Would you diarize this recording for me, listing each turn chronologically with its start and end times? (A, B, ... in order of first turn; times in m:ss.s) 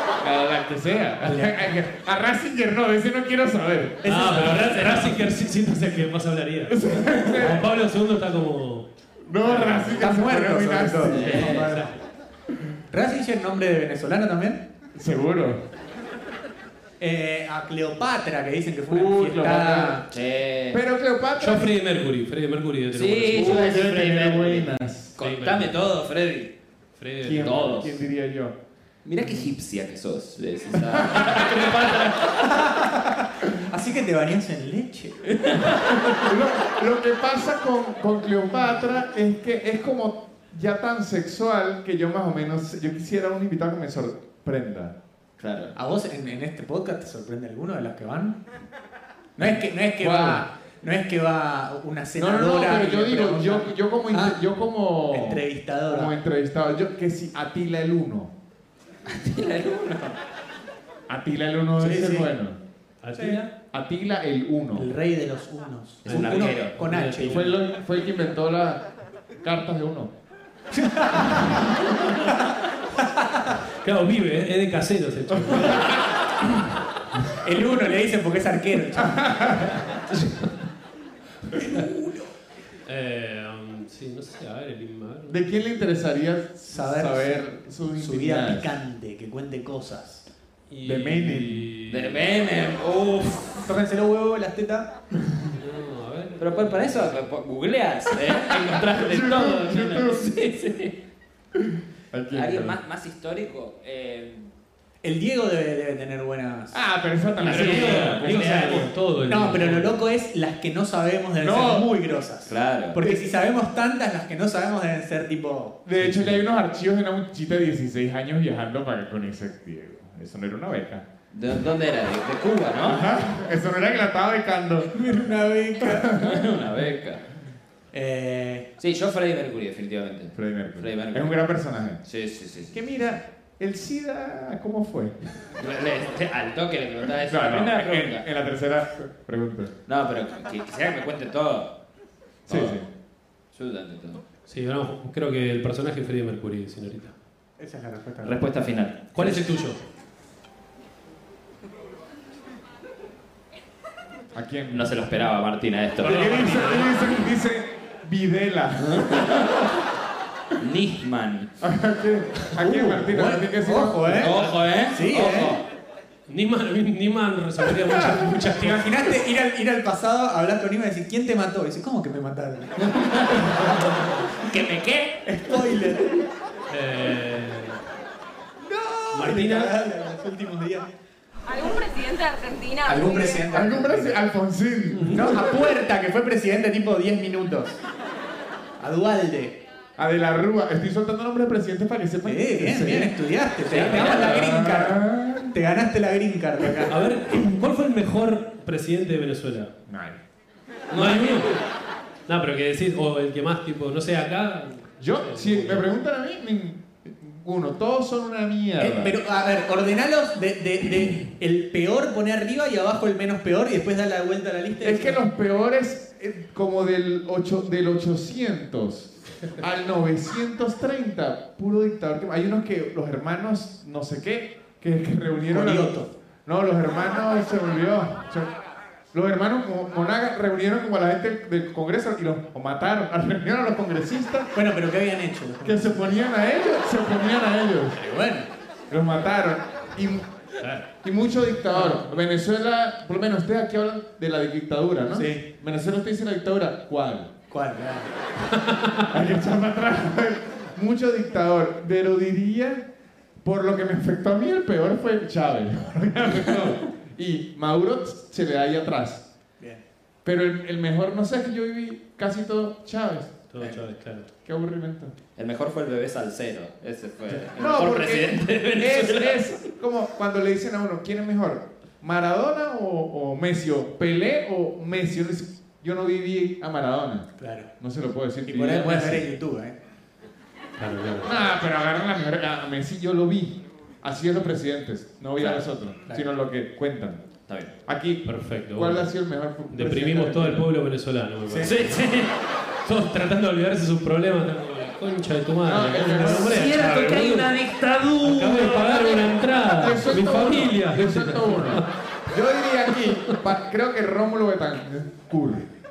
0:00.2-0:04.2 A
0:01.2-0:01.8 B
0:04.0-0:05.2 B
0:04.0-0:08.9 C
0:06.7-0:07.7 A
0:09.2-0:11.6 A
0:09.4-0:10.0 C
0:10.0-0:11.9 B
0:11.1-0:11.7 D
0:11.2-0:11.9 C
0:12.9-0:14.6 B
0:14.9-0:15.6 A
0:17.0-0:20.1 B
0:18.9-0:20.0 A
0:20.1-0:20.8 D
0:20.7-0:21.8 A
0:21.4-0:23.8 C
0:22.9-0:26.5 D
0:23.3-0:25.1 A
0:25.2-0:26.0 C
0:27.0-0:27.8 C
0:27.2-0:28.6 A
0:27.4-0:28.0 D
0:29.0-0:32.5 D
0:30.7-0:31.6 A
0:32.4-0:35.2 B
0:35.3-0:36.3 D
0:36.2-0:45.0 A
0:45.4-0:45.7 D
0:45.8-0:48.4 B
0:49.4-0:54.4 B
0:50.0-0:50.4 A
0:52.2-0:58.3 A
0:55.1-0:56.1 B
0:59.1-1:00.2 D
1:01.1-1:02.6 A
1:01.8-1:02.3 B
1:03.0-1:03.5 C
1:03.1-1:03.5 B
1:03.7-1:04.9 A
1:04.8-1:07.5 B
1:06.1-1:06.8 D
1:06.1-1:07.5 C
1:07.2-1:08.8 A
1:09.4-1:10.1 A
1:10.7-1:11.6 B
1:13.0-1:13.3 B
1:13.8-1:16.0 C
1:15.3-1:16.0 A
1:17.4-1:19.3 B
1:19.0-1:19.9 A
1:19.9-1:20.5 C
1:21.5-1:22.3 B
1:22.9-1:25.6 C
1:25.3-1:28.8 A
1:26.7-1:30.2 B
1:30.7-1:32.3 C
1:30.8-1:31.7 A
1:31.9-1:33.7 D
1:33.6-1:34.9 B
1:35.6-1:37.3 C
1:36.4-1:41.0 D
1:38.5-1:40.3 A
1:41.5-1:42.8 A
1:42.3-1:44.5 D
1:45.0-1:46.8 B
1:46.7-1:48.9 A
1:47.4-1:48.9 D
1:47.4-1:50.0 C
1:49.3-1:55.8 B
1:51.4-1:51.9 A
1:52.5-1:53.0 D
1:55.8-2:01.1 A
1:56.0-1:56.4 C
2:01.3-2:03.0 D
2:02.8-2:04.9 A
2:04.9-2:06.1 B
2:05.8-2:06.5 A
2:06.1-2:07.2 D
2:07.9-2:08.7 B
2:08.8-2:11.4 D
2:10.3-2:12.0 A
2:12.0-2:12.7 D
2:12.7-2:15.5 A
2:15.6-2:18.2 D
2:17.3-2:19.7 A
2:19.9-2:21.7 D
2:22.5-2:22.9 A
2:22.5-2:22.8 D
2:23.5-2:24.2 D
2:24.5-2:27.1 C
2:27.6-2:28.4 B
2:28.2-2:29.5 D
2:29.1-2:29.8 C
2:34.3-2:35.0 A
2:34.7-2:36.4 D
2:36.0-2:37.3 C
2:36.0-2:39.2 A
2:38.8-2:39.7 D
2:40.6-2:41.5 D
2:41.6-2:44.3 A
2:42.6-2:45.6 B
2:44.2-2:45.6 D
2:44.3-2:44.7 C
2:46.3-2:49.0 C
2:47.9-2:48.2 A
2:48.5-2:53.1 B
2:52.8-2:53.7 D
2:54.4-2:55.2 D
2:55.2-2:56.2 B
2:56.7-2:57.8 C
2:58.6-3:00.9 B
2:59.1-2:59.7 C
3:01.5-3:03.5 E
3:02.9-3:04.2 B
3:03.5-3:05.8 A
3:04.9-3:05.3 C
3:05.1-3:07.8 B
3:08.8-3:09.6 B
3:10.0-3:13.2 A
3:12.2-3:17.0 B
3:13.7-3:14.4 D
3:13.9-3:15.6 A
3:16.9-3:19.7 C
3:19.9-3:20.2 A
3:20.9-3:21.5 D
3:20.9-3:21.6 C
3:22.3-3:25.9 C
3:25.0-3:29.2 A
3:28.8-3:35.2 B
3:34.8-3:48.5 A
3:45.5-3:46.1 B
3:49.1-3:54.5 A
3:54.5-3:56.2 B
3:55.6-3:58.0 A
3:58.0-3:58.5 B
3:58.9-4:00.3 A
4:01.0-4:07.3 A
4:01.7-4:02.1 B
4:05.1-4:05.5 B
4:07.5-4:08.1 B
4:08.6-4:09.1 C
4:09.1-4:12.8 A
4:13.4-4:19.2 A
4:20.2-4:23.3 A
4:23.5-4:24.3 C
4:24.4-4:25.1 A
4:25.4-4:29.5 D
4:27.3-4:39.3 A
4:37.4-4:37.7 B
4:38.4-4:39.8 B
4:40.8-4:41.4 C
4:41.2-4:47.2 A
4:45.4-4:45.6 D
4:47.5-4:47.7 D
4:47.8-4:50.7 A
4:48.2-4:49.1 C
4:49.7-4:52.1 C
4:51.5-4:51.7 B
4:51.6-4:52.3 D
4:52.8-4:57.6 C
4:55.7-4:56.7 A
4:56.2-4:59.2 D
4:58.2-5:01.9 C
4:59.5-5:05.7 A